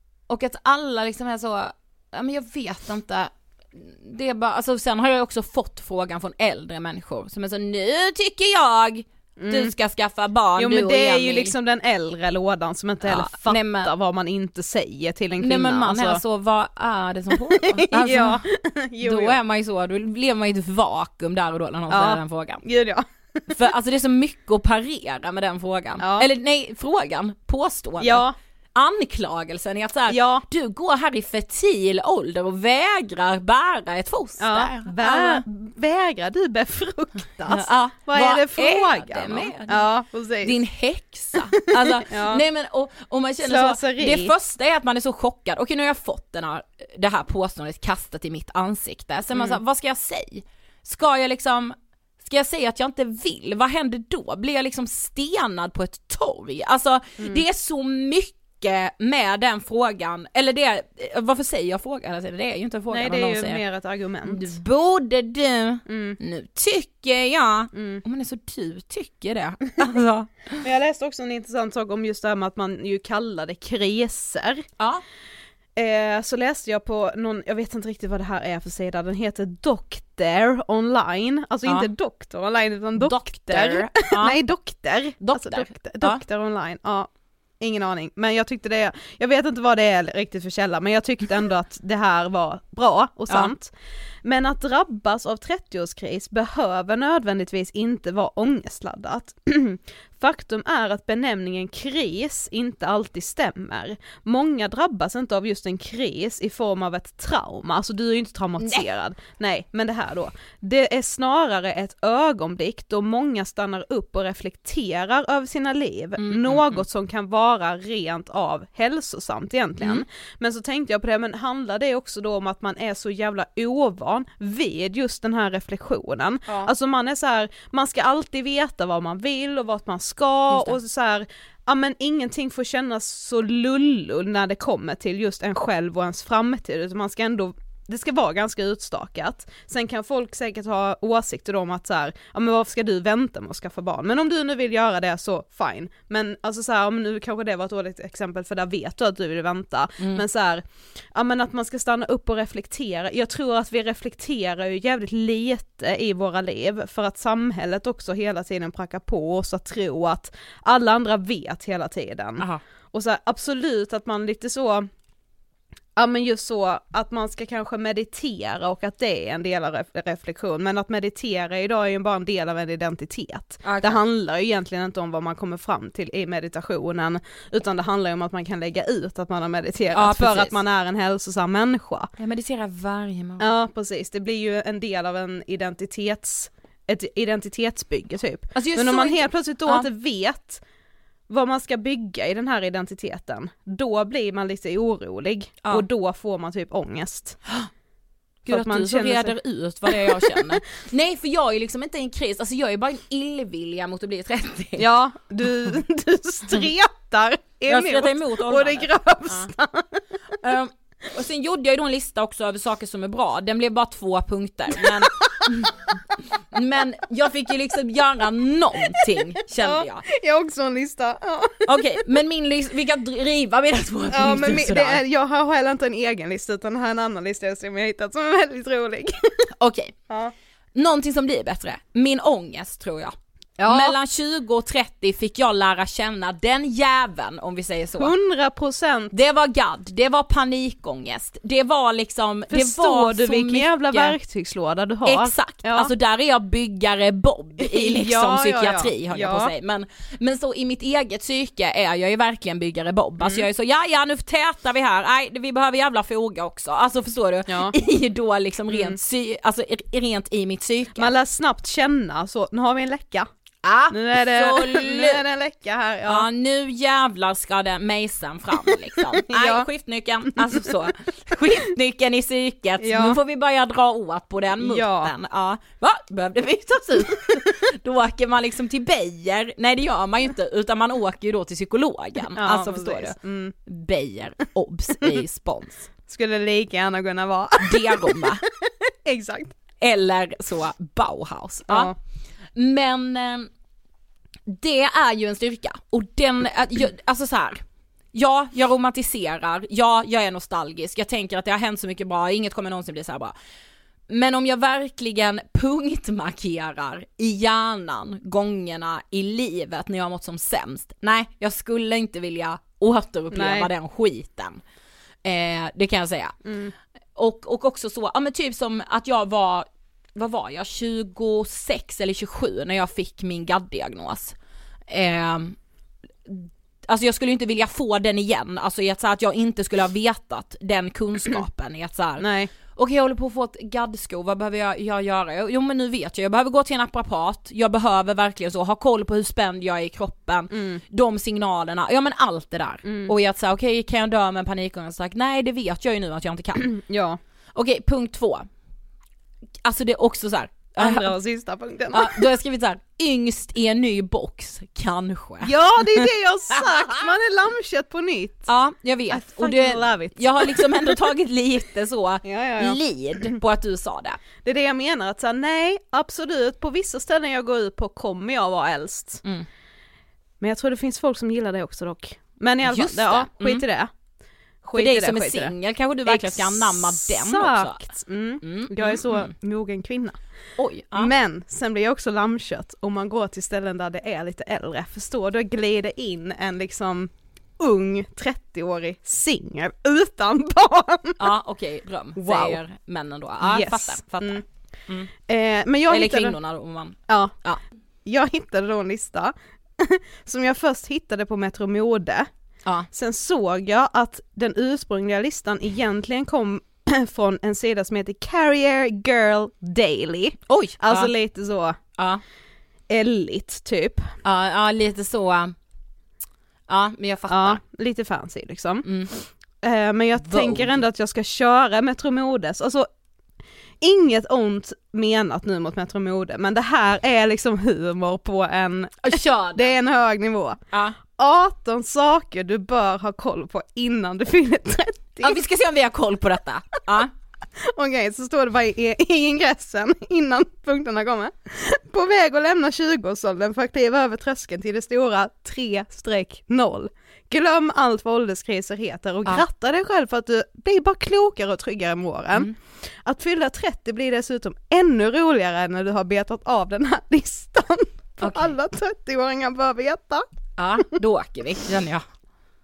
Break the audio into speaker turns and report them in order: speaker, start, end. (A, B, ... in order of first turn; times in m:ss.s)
0:00.3-0:11.5 A
0:09.4-0:09.7 B
0:10.6-0:16.2 B
0:13.0-0:13.9 A
0:15.4-0:18.4 A
0:17.5-0:19.4 B
0:19.0-0:22.6 A
0:21.9-0:23.6 B
0:23.5-0:35.4 A
0:26.0-0:26.3 B
0:28.0-0:28.3 B
0:30.1-0:30.4 B
0:34.4-0:40.6 B
0:37.5-0:39.9 A
0:40.4-1:03.6 A
0:41.4-0:42.4 B
0:43.4-0:44.3 B
1:02.9-1:04.5 B
1:04.3-1:10.6 A
1:05.9-1:06.2 B
1:07.7-1:08.0 B
1:10.6-1:14.6 B
1:14.8-1:15.0 A
1:15.8-1:27.1 B
1:23.0-1:24.4 A
1:25.2-1:26.2 A
1:27.6-1:33.7 B
1:34.2-2:44.9 B
1:48.6-1:48.9 A
1:56.2-1:56.8 A
2:10.5-2:10.8 A
2:46.0-3:02.1 B
2:53.6-2:54.0 A
2:59.9-3:00.5 A
3:02.2-3:03.5 A
3:03.4-3:10.6 B
3:08.5-3:09.9 A
3:11.3-3:17.4 B
3:18.4-3:19.4 B
3:18.5-3:24.8 A
3:19.9-3:20.5 B
3:24.8-3:30.0 B
3:27.7-3:29.5 A
3:30.4-3:35.8 A
3:36.5-3:40.0 A
3:39.6-3:42.0 B
3:41.6-3:45.0 A
3:44.1-3:49.4 B
3:49.6-3:49.9 A
3:50.7-3:53.1 A
3:53.6-3:54.0 B
3:53.6-3:58.1 A
3:58.0-3:59.1 B
3:59.1-4:04.2 A
4:02.5-4:05.9 B
4:05.0-4:21.1 A
4:07.6-4:09.5 B
4:13.2-4:13.4 B
4:17.5-4:17.7 B
4:18.7-4:19.0 B
4:21.0-4:23.3 B
4:23.6-4:25.2 A
4:23.9-4:26.3 B
4:26.0-4:45.9 A
4:29.3-4:29.7 B
4:32.8-4:33.2 B
4:34.6-4:35.1 B
4:42.4-4:43.5 B
4:46.1-4:49.5 B
4:47.6-4:48.4 A
4:49.8-4:51.9 A
4:51.7-4:51.9 B
4:52.5-4:53.5 A
4:54.4-5:03.3 A
5:04.1-5:14.6 A
5:13.3-5:13.7 B
5:15.2-5:16.4 A
5:16.4-5:16.7 B
5:17.1-5:24.3 A
5:24.9-5:25.6 A
5:26.2-5:46.6 A
5:32.2-5:32.5 B
5:40.5-5:40.8 B
5:42.8-5:43.1 B
5:46.6-5:47.2 B
5:47.5-5:48.5 A
5:49.6-5:51.1 A
5:50.8-5:52.2 B
5:51.9-5:56.0 A
5:55.4-5:58.5 B
5:56.6-5:56.9 A
5:58.5-6:04.2 A
5:59.1-6:00.9 B
6:02.2-6:03.4 B
6:04.4-6:09.2 B
6:10.4-6:13.9 B
6:12.6-6:13.6 A
6:14.6-6:20.2 B
6:14.7-6:17.9 A
6:18.4-6:19.3 A
6:20.6-6:21.1 A
6:20.9-6:31.3 B
6:31.2-6:35.1 A
6:32.1-6:32.6 B
6:33.4-6:34.4 B
6:35.3-6:36.4 B
6:35.9-6:37.6 A
6:37.1-6:37.3 B
6:38.0-6:42.3 B
6:42.9-6:51.8 B
6:50.5-6:51.1 A
6:52.0-6:52.2 A
6:52.9-6:54.1 B
6:54.2-6:55.5 A
6:56.7-6:57.6 A
6:57.3-7:02.9 B
6:58.8-6:59.1 A
7:00.2-7:00.8 A
7:03.8-7:10.6 B
7:09.0-7:09.8 A
7:10.7-7:11.0 A
7:11.2-7:15.4 B
7:15.2-7:17.1 A
7:17.6-7:40.2 B
7:38.2-7:38.5 A
7:40.6-7:42.0 A